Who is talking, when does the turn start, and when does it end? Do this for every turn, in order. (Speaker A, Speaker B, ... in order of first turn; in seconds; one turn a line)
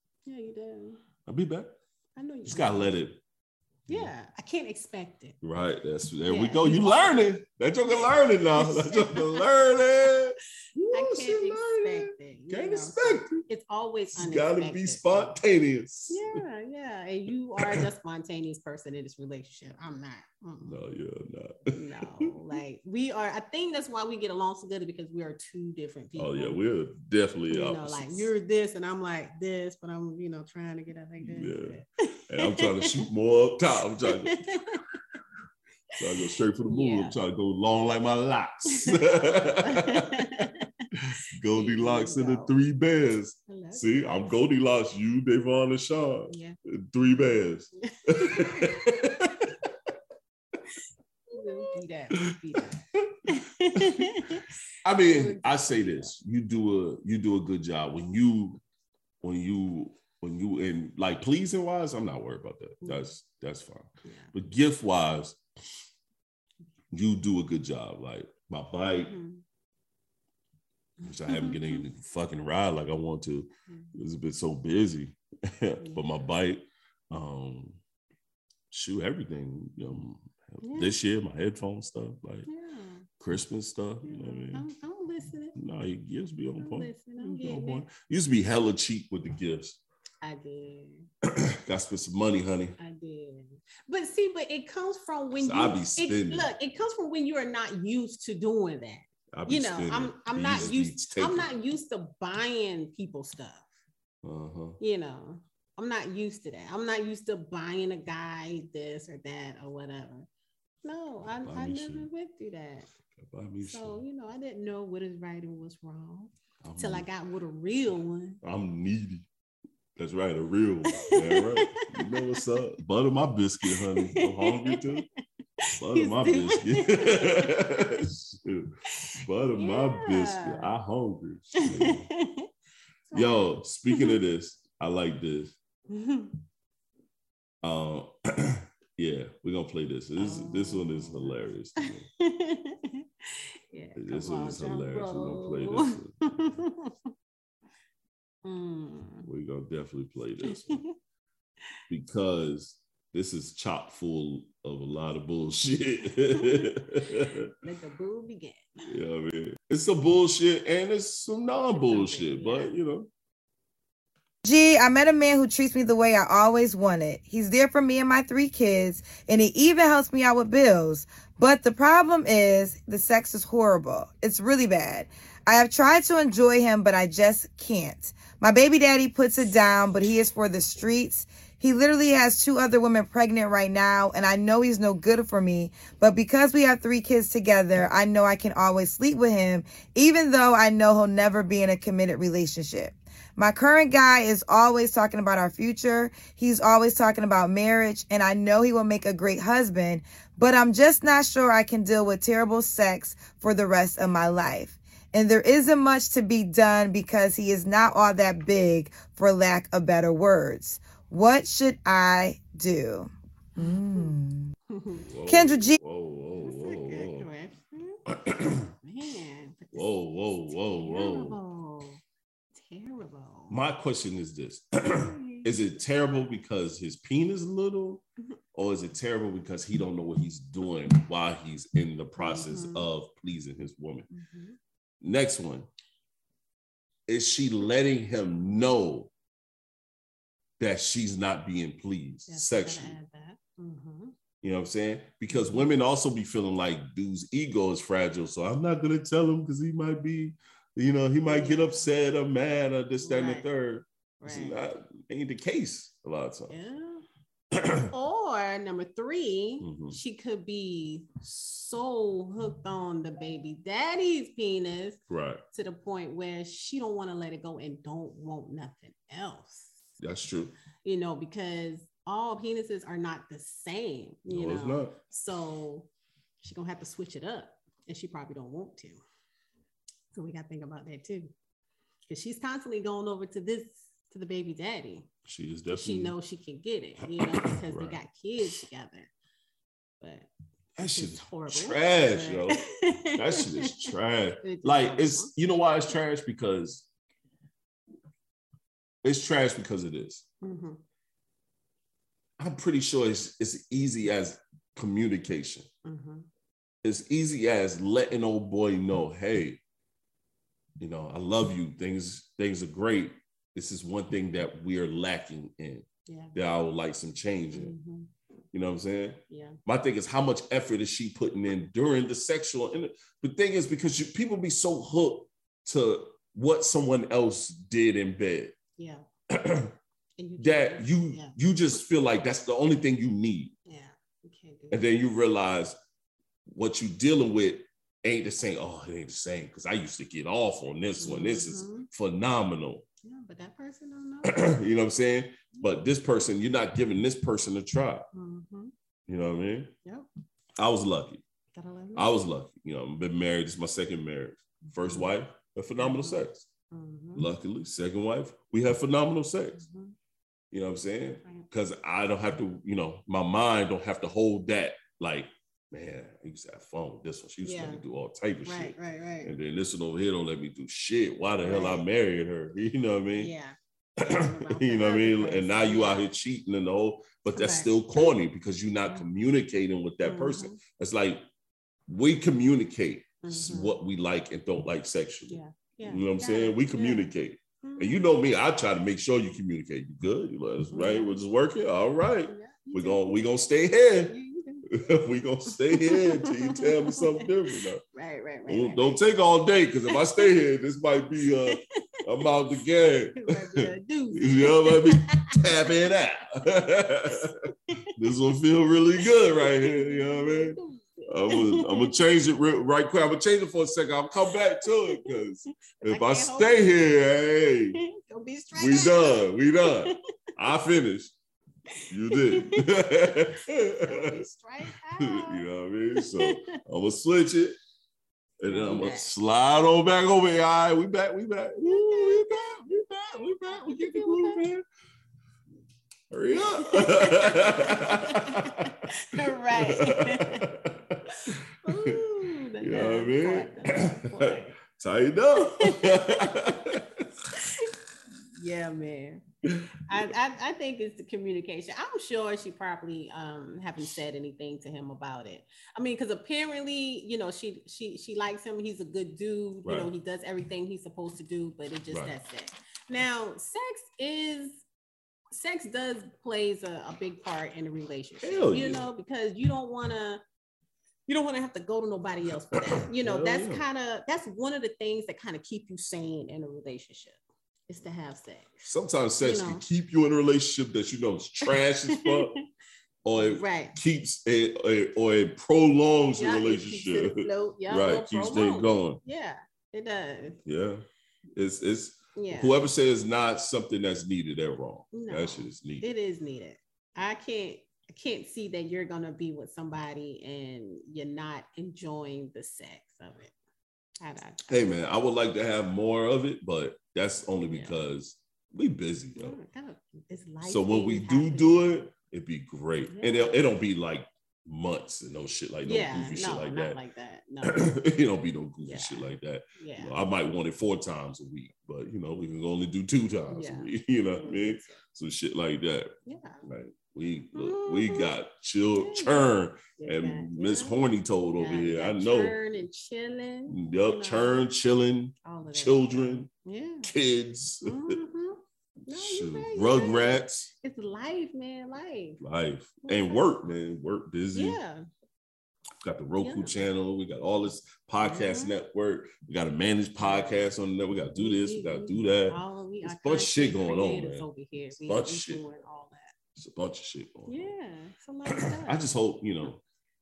Speaker A: 0.2-1.0
Speaker B: 1.2-1.7
Speaker A: 2.1-2.9
Speaker B: 2.4-3.2
Speaker A: 3.9-5.3
Speaker B: 5.4-13.4
Speaker A: 6.3-7.3
Speaker A: 7.9-9.4
Speaker A: 10.9-15.4
Speaker B: 14.1-16.4
Speaker A: 16.1-20.8
Speaker B: 17.6-17.9
Speaker B: 20.6-22.3
Speaker A: 21.7-26.6
Speaker B: 26.1-28.3
Speaker A: 27.5-33.0
Speaker B: 31.2-34.8
Speaker A: 34.1-34.9
Speaker B: 36.0-40.5
Speaker A: 36.2-37.2
Speaker A: 38.7-40.9
Speaker B: 41.4-49.5
Speaker A: 41.5-42.5
Speaker A: 43.5-44.4
Speaker A: 46.3-47.3
Speaker A: 48.1-49.3
Speaker A: 51.3-56.1
Speaker B: 52.9-54.2
Speaker B: 54.8-58.6
Speaker B: 59.2-65.4
Speaker A: 62.8-63.1
Speaker A: 64.0-64.3
Speaker B: 66.9-69.1
Speaker A: 68.8-69.4
Speaker B: 71.0-77.8
Speaker A: 71.2-71.8
Speaker A: 75.8-76.1
Speaker B: 78.7-82.5
Speaker A: 80.6-80.9
Speaker A: 82.5-83.0
Speaker B: 83.2-84.7
Speaker A: 84.0-85.5
Speaker B: 85.5-89.8
Speaker A: 86.6-87.8
Speaker A: 90.2-91.1
Speaker B: 91.3-92.8
Speaker A: 92.8-103.7
Speaker B: 95.3-96.5
Speaker B: 99.3-101.5
Speaker B: 104.2-104.8
Speaker A: 104.8-110.3
Speaker A: 110.8-112.9
Speaker B: 111.4-112.1
Speaker B: 113.2-114.0
Speaker A: 113.6-118.4
Speaker B: 116.6-117.1
Speaker B: 118.4-119.3
Speaker B: 120.0-125.0
Speaker A: 121.0-122.4
Speaker A: 123.7-125.0
Speaker A: 125.6-127.6
Speaker B: 125.8-132.1
Speaker A: 128.9-130.7
Speaker A: 131.6-132.5
Speaker A: 133.1-134.2
Speaker B: 133.1-135.5
Speaker A: 135.9-136.3
Speaker B: 137.6-142.1
Speaker A: 140.2-146.9
Speaker B: 143.9-146.2
Speaker A: 148.4-149.3
Speaker B: 149.2-150.8
Speaker A: 150.4-150.9
Speaker B: 151.9-157.5
Speaker A: 156.3-156.7
Speaker A: 157.6-158.9
Speaker B: 158.8-163.1
Speaker A: 161.7-162.7
Speaker C: 164.4-214.5
Speaker A: 213.6-214.1
Speaker A: 214.7-215.1
Speaker B: 215.1-217.3
Speaker C: 215.3-215.8
Speaker A: 216.4-218.0
Speaker B: 218.1-218.7
Speaker A: 218.8-219.9
Speaker B: 219.7-221.4
Speaker A: 220.5-222.0
Speaker A: 222.5-223.6
Speaker B: 223.5-228.0
Speaker A: 224.9-225.5
Speaker B: 228.5-234.1
Speaker A: 232.2-232.9
Speaker A: 234.1-234.6
Speaker B: 235.0-235.7
Speaker B: 237.1-239.1
Speaker B: 240.6-242.9
Speaker A: 242.3-244.1
Speaker B: 244.4-256.5
Speaker A: 245.3-245.7
Speaker A: 251.2-251.9
Speaker A: 253.0-253.5
Speaker A: 254.2-254.6
Speaker A: 256.5-257.0
Speaker B: 257.5-257.9
Speaker A: 257.9-265.0
Speaker B: 259.6-260.0
Speaker B: 265.1-265.4
Speaker A: 265.5-269.8
Speaker B: 270.0-270.5
Speaker A: 270.8-275.9
Speaker B: 274.3-274.9
Speaker A: 276.4-279.0
Speaker A: 280.1-281.3
Speaker A: 282.1-285.1
Speaker B: 285.2-286.1
Speaker A: 285.7-289.1
Speaker B: 287.1-288.0
Speaker A: 290.0-293.9
Speaker B: 290.8-292.6
Speaker B: 293.1-296.9
Speaker A: 294.4-295.3
Speaker B: 299.0-300.2
Speaker A: 300.4-300.8
Speaker B: 302.4-305.7
Speaker A: 305.8-306.3
Speaker B: 306.8-309.6
Speaker B: 310.8-317.7
Speaker A: 316.1-316.4
Speaker A: 317.5-318.1
Speaker B: 318.5-328.5
Speaker A: 319.3-319.6
Speaker A: 328.8-329.0
Speaker B: 329.3-329.7
Speaker A: 330.2-331.4
Speaker B: 330.4-333.5
Speaker A: 333.7-334.9
Speaker B: 334.7-335.8
Speaker B: 336.5-342.8
Speaker A: 341.0-341.9
Speaker A: 343.0-344.4
Speaker B: 344.2-348.1
Speaker A: 348.1-348.7
Speaker B: 349.1-349.7
Speaker B: 350.6-351.2
Speaker A: 351.5-352.2
Speaker B: 351.9-356.4
Speaker A: 354.6-355.1
Speaker A: 355.8-357.3
Speaker B: 357.1-359.6
Speaker A: 359.6-359.9
Speaker B: 360.5-373.3
Speaker A: 367.4-367.8
Speaker A: 368.4-369.3
Speaker A: 371.4-371.8
Speaker A: 373.2-376.1
Speaker B: 374.0-381.2
Speaker A: 377.3-378.1
Speaker A: 380.0-380.6
Speaker B: 381.9-394.1
Speaker A: 383.2-383.8
Speaker A: 385.3-388.1
Speaker A: 390.7-391.2
Speaker A: 392.3-393.2
Speaker A: 394.1-394.9
Speaker B: 394.7-397.8
Speaker A: 395.6-397.3
Speaker A: 397.9-399.0
Speaker B: 398.5-407.4
Speaker A: 399.9-400.3
Speaker A: 403.1-405.4
Speaker A: 407.3-407.9
Speaker B: 407.9-417.8
Speaker A: 409.3-411.9
Speaker A: 414.6-415.0
Speaker A: 415.8-416.8
Speaker A: 417.7-420.0
Speaker B: 418.5-421.1
Speaker A: 421.7-426.6
Speaker B: 421.9-424.2
Speaker B: 425.0-427.6
Speaker B: 428.4-434.6
Speaker A: 428.5-429.1
Speaker A: 431.6-434.4
Speaker B: 436.1-442.0
Speaker A: 436.6-440.5
Speaker A: 441.1-444.6
Speaker B: 442.6-447.1
Speaker A: 445.5-446.6
Speaker A: 447.3-447.7
Speaker A: 448.3-449.2
Speaker B: 449.4-450.1
Speaker A: 449.8-464.6
Speaker B: 459.6-459.9
Speaker B: 461.9-462.1
Speaker A: 465.3-470.2
Speaker B: 468.2-468.9
Speaker A: 471.1-478.7
Speaker B: 472.5-473.6
Speaker B: 478.6-482.4
Speaker A: 479.2-479.6
Speaker A: 481.4-482.4
Speaker B: 483.0-489.0
Speaker A: 483.2-483.7
Speaker A: 486.1-490.4
Speaker B: 490.4-490.8
Speaker B: 491.3-495.9
Speaker A: 492.1-492.6
Speaker A: 494.9-503.3
Speaker A: 504.0-504.7
Speaker B: 504.5-509.4
Speaker A: 507.4-507.8
Speaker A: 509.1-511.8
Speaker B: 510.4-516.8
Speaker A: 512.9-513.4
Speaker A: 515.6-517.7
Speaker B: 517.4-525.9
Speaker A: 518.6-519.9
Speaker A: 523.3-524.8
Speaker A: 526.0-526.4
Speaker B: 526.4-532.4
Speaker A: 527.3-528.1
Speaker A: 528.7-530.8
Speaker A: 531.4-534.4
Speaker B: 533.5-536.3
Speaker A: 535.2-536.9
Speaker B: 536.9-538.0
Speaker A: 537.6-542.2
Speaker B: 538.9-540.5
Speaker B: 542.2-544.6
Speaker A: 542.8-543.3
Speaker A: 544.3-544.9
Speaker B: 545.8-555.4
Speaker A: 546.2-546.6
Speaker A: 548.0-548.5
Speaker A: 550.0-550.4
Speaker A: 551.1-556.1
Speaker B: 556.4-557.5
Speaker A: 557.3-558.9
Speaker B: 558.3-559.6